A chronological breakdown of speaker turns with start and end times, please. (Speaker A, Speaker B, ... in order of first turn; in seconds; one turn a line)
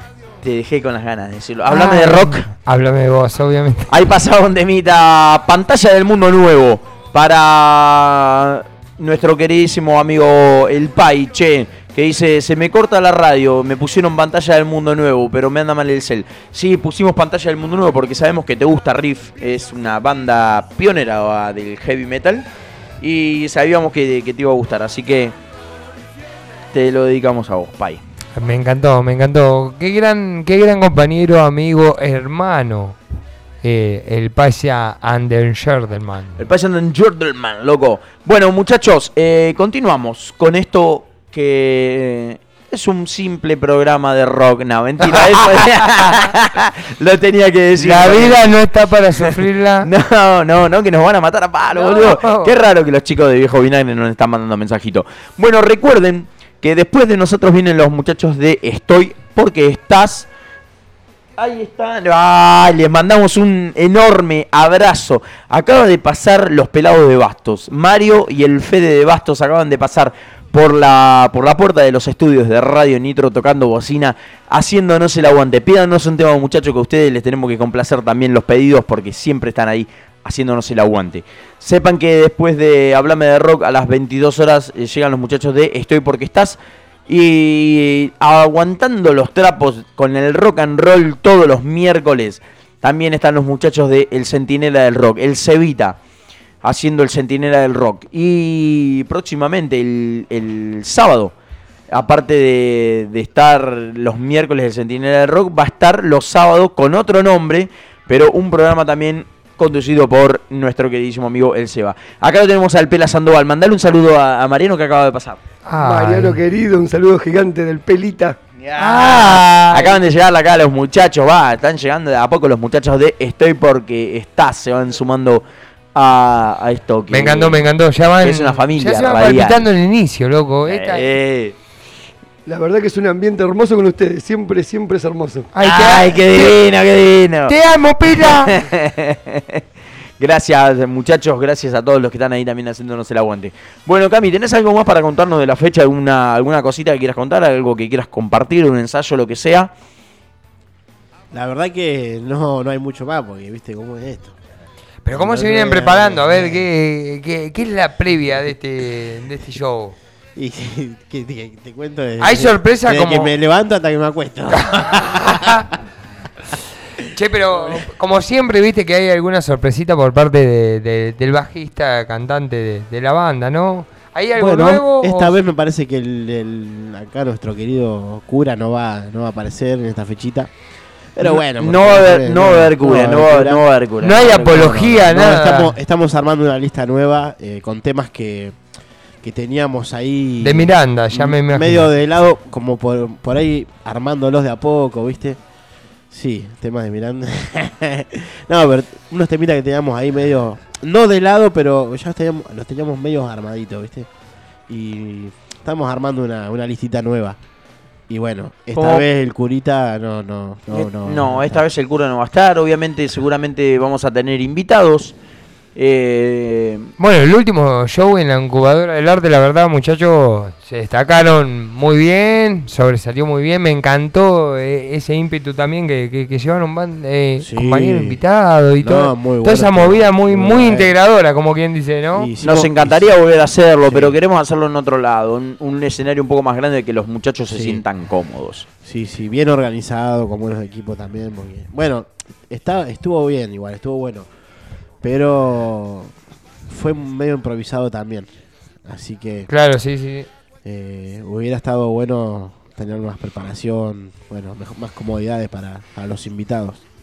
Speaker A: 0.4-2.5
Speaker B: 1.7-3.9
Speaker A: 3.9-22.4
Speaker A: 23.0-25.4
Speaker A: 26.7-28.0
Speaker B: 28.4-33.0
Speaker B: 33.6-36.4
Speaker A: 36.4-48.4
Speaker B: 47.8-49.9
Speaker A: 49.8-60.3
Speaker B: 51.7-52.5
Speaker A: 61.4-96.0
Speaker A: 96.6-101.3
Speaker A: 101.9-115.4
Speaker B: 115.7-116.4
Speaker C: 115.8-118.4
Speaker A: 118.8-125.4
Speaker B: 118.8-119.6
Speaker A: 126.0-127.6
Speaker B: 127.1-131.1
Speaker A: 128.2-129.7
Speaker A: 130.7-131.6
Speaker C: 132.5-135.5
Speaker B: 135.5-136.6
Speaker A: 135.6-137.6
Speaker B: 137.5-138.5
Speaker A: 138.2-139.6
Speaker A: 140.2-149.7
Speaker D: 151.3-154.3
Speaker B: 155.1-159.9
Speaker D: 155.1-156.7
Speaker D: 160.4-165.6
Speaker B: 162.2-163.3
Speaker B: 164.6-165.7
Speaker B: 167.1-175.4
Speaker D: 174.4-180.5
Speaker D: 181.2-183.6
Speaker A: 181.2-185.1
Speaker B: 184.0-185.8
Speaker D: 184.4-188.6
Speaker D: 189.2-195.4
Speaker B: 190.4-191.9
Speaker D: 196.1-204.1
Speaker D: 204.7-207.4
Speaker D: 208.1-211.6
Speaker A: 208.7-209.1
Speaker A: 210.7-215.2
Speaker A: 215.8-216.9
Speaker B: 217.0-232.3
Speaker D: 227.4-228.2
Speaker D: 228.8-230.9
Speaker D: 232.2-233.1
Speaker A: 232.4-238.7
Speaker D: 233.9-234.2
Speaker D: 237.5-237.8
Speaker D: 238.8-244.3
Speaker D: 245.0-246.1
Speaker D: 246.7-248.3
Speaker D: 248.9-249.5
Speaker B: 249.5-250.3
Speaker D: 250.7-256.8